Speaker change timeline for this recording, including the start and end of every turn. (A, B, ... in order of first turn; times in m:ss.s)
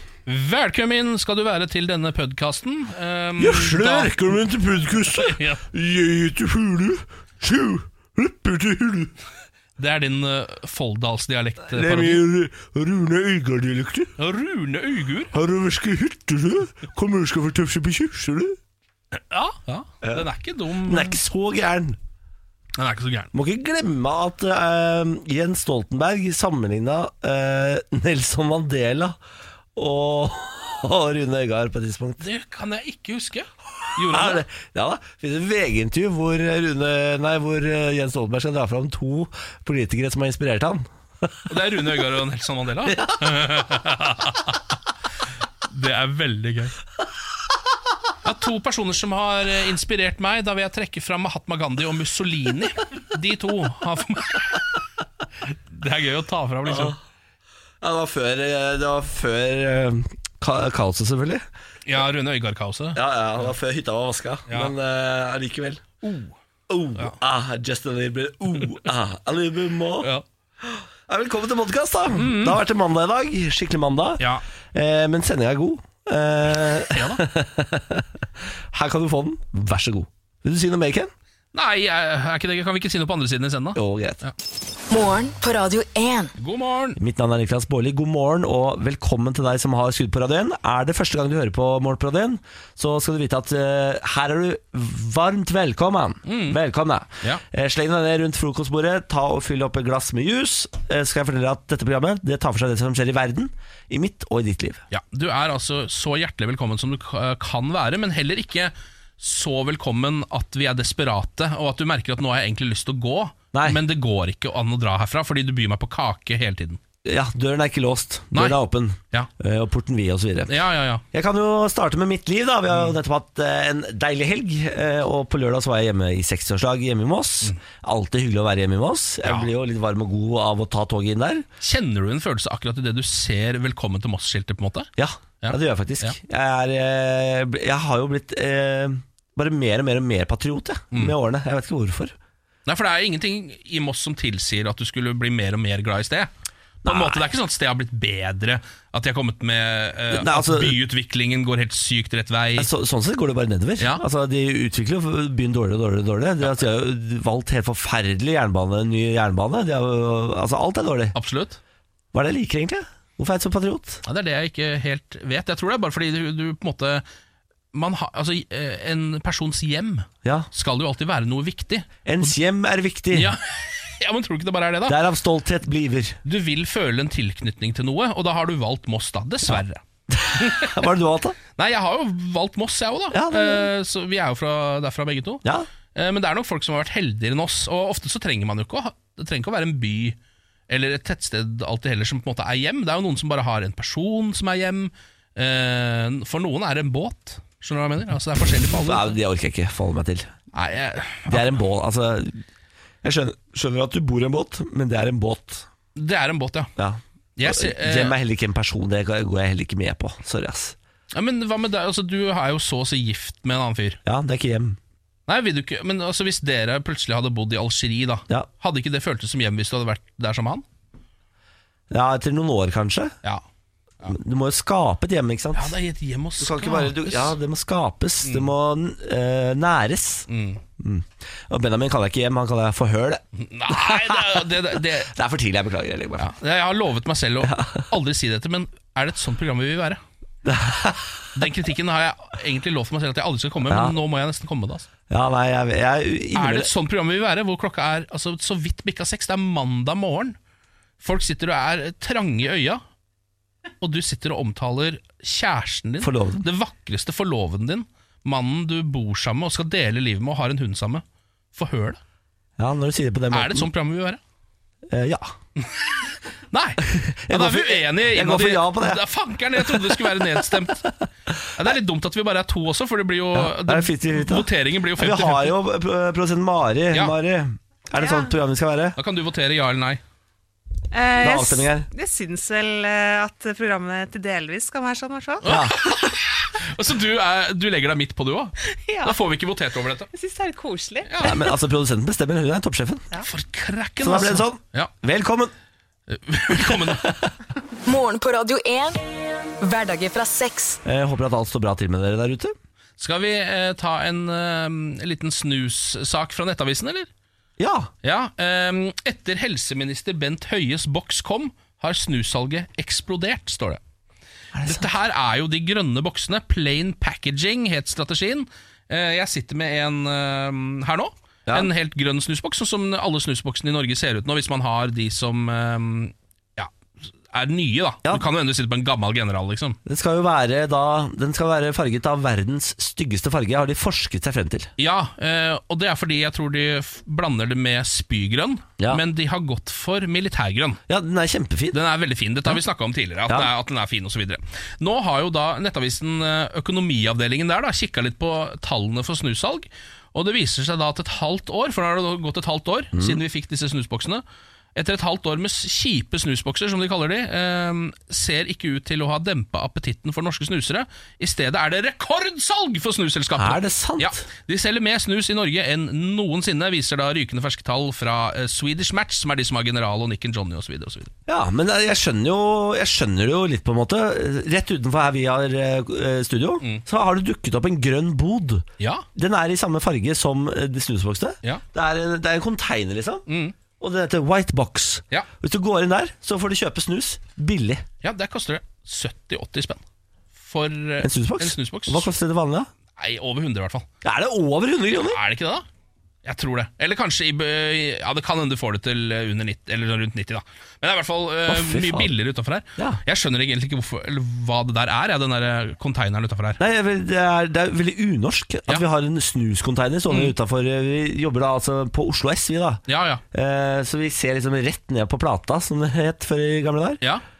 0:00.3-0:04.1 A
0:03.4-0:09.1 B
0:05.2-0:05.6 A
0:09.8-0:12.2 A
0:11.6-0:14.1 B
0:14.2-0:15.3 A
0:15.3-0:18.6 B
0:19.2-0:21.2 A
0:20.0-0:20.3 B
0:20.8-0:22.0 B
0:22.8-0:23.3 A
0:23.3-0:29.2 B
0:29.7-0:32.3 B
0:32.2-0:34.4 A
0:34.0-0:41.5 B
0:41.5-0:44.7 A
0:42.8-0:43.5 B
0:45.6-0:46.7 A
0:48.2-0:54.6 A
0:55.4-0:57.0 A
0:56.6-0:57.0 B
0:57.8-1:01.4 B
1:01.9-1:03.0 A
1:02.9-1:05.8 B
1:04.5-1:04.7 A
1:06.0-1:06.3 A
1:06.7-1:21.1 B
1:12.1-1:12.6 A
1:16.7-1:17.2 A
1:21.5-1:24.3 A
1:23.7-1:24.2 B
1:24.9-1:26.3 C
1:26.4-1:27.0 A
1:27.0-1:44.8 B
1:36.2-1:36.6 A
1:44.9-1:56.8 A
1:53.5-1:53.8 B
1:57.0-2:00.6 B
2:00.5-2:01.0 A
2:01.1-2:11.4 B
2:09.2-2:09.5 A
2:11.6-2:14.9 A
2:15.0-2:22.1 B
2:15.4-2:16.2 A
2:22.6-2:26.3 A
2:26.8-2:27.2 B
2:26.8-2:32.7 A
2:30.1-2:30.8 B
2:32.6-2:41.2 B
2:33.8-2:34.0 A
2:41.1-2:41.6 A
2:42.1-2:44.0 B
2:44.0-2:47.0 A
2:47.7-2:52.3 A
2:50.2-2:50.5 B
2:52.0-2:53.3 B
2:53.1-2:55.0 A
2:54.9-2:56.2 B
2:56.2-2:59.8 A
2:59.4-3:01.4 B
3:00.3-3:00.8 A
3:01.6-3:05.4 A
3:03.1-3:03.7 B
3:05.9-3:10.2 A
3:10.7-3:19.2 A
3:18.6-3:20.3 B
3:20.5-3:21.6 A
3:21.3-3:22.4 B
3:23.0-3:25.6 B
3:26.0-3:26.7 A
3:26.8-3:30.8 B
3:27.4-3:28.2 A
3:31.1-3:34.0 A
3:34.0-3:34.8 B
3:35.3-3:40.6 A
3:41.9-3:43.1 B
3:44.0-3:45.7 B
3:45.5-3:47.3 A
3:46.4-3:50.3 B
3:48.2-3:48.5 A
3:50.3-3:50.6 A
3:50.8-3:56.3 B
3:53.3-3:55.1 A
3:56.2-4:00.0 A
3:57.4-3:57.9 B
4:00.4-4:01.5 B
4:01.3-4:04.9 A
4:03.7-4:04.0 B
4:05.1-4:06.7 B
4:06.3-4:10.4 A
4:11.0-4:12.8 A
4:13.8-4:22.0 A
4:16.0-4:16.5 B
4:22.6-4:23.7 B
4:23.3-4:24.2 A
4:24.9-4:25.3 B
4:26.5-4:30.9 A
4:26.9-4:30.9 B
4:31.6-4:35.6 A
4:33.3-4:39.0 B
4:38.0-4:38.3 D
4:39.0-4:40.0 A
4:40.9-4:45.8 D
4:41.2-4:41.9 B
4:45.4-4:50.1 A
4:45.5-4:45.7 B
4:48.7-4:49.2 D
4:50.1-4:51.4 D
4:51.0-4:51.4 A
4:51.2-4:53.1 B
4:53.2-4:54.9 A
4:54.0-4:55.5 B
4:56.1-4:57.1 A
4:56.5-4:57.3 B
4:57.8-4:59.0 C
4:59.6-5:00.8 C
5:00.8-5:02.5 B
5:03.0-5:07.1 A
5:07.6-5:07.9 B
5:08.0-5:13.8 A
5:14.5-5:14.9 B
5:14.6-5:26.7 A
5:27.3-5:29.8 A
5:29.8-5:34.7 B
5:34.8-5:40.8 A
5:40.9-5:41.8 B
5:41.7-5:54.2 A
5:52.9-5:53.2 B
5:54.7-6:11.1 A
6:03.4-6:04.3 B
6:11.3-6:23.2 B
6:18.8-6:19.0 A
6:23.3-6:23.6 A
6:23.8-6:27.8 B
6:28.0-6:29.8 A
6:30.4-6:32.1 A
6:31.0-6:32.7 B
6:33.0-6:33.8 A
6:34.0-6:35.2 B
6:35.0-6:35.6 A
6:36.2-6:46.6 A
6:41.5-6:42.1 B
6:46.6-6:57.0 B
6:50.1-6:50.3 A
6:52.9-6:53.2 A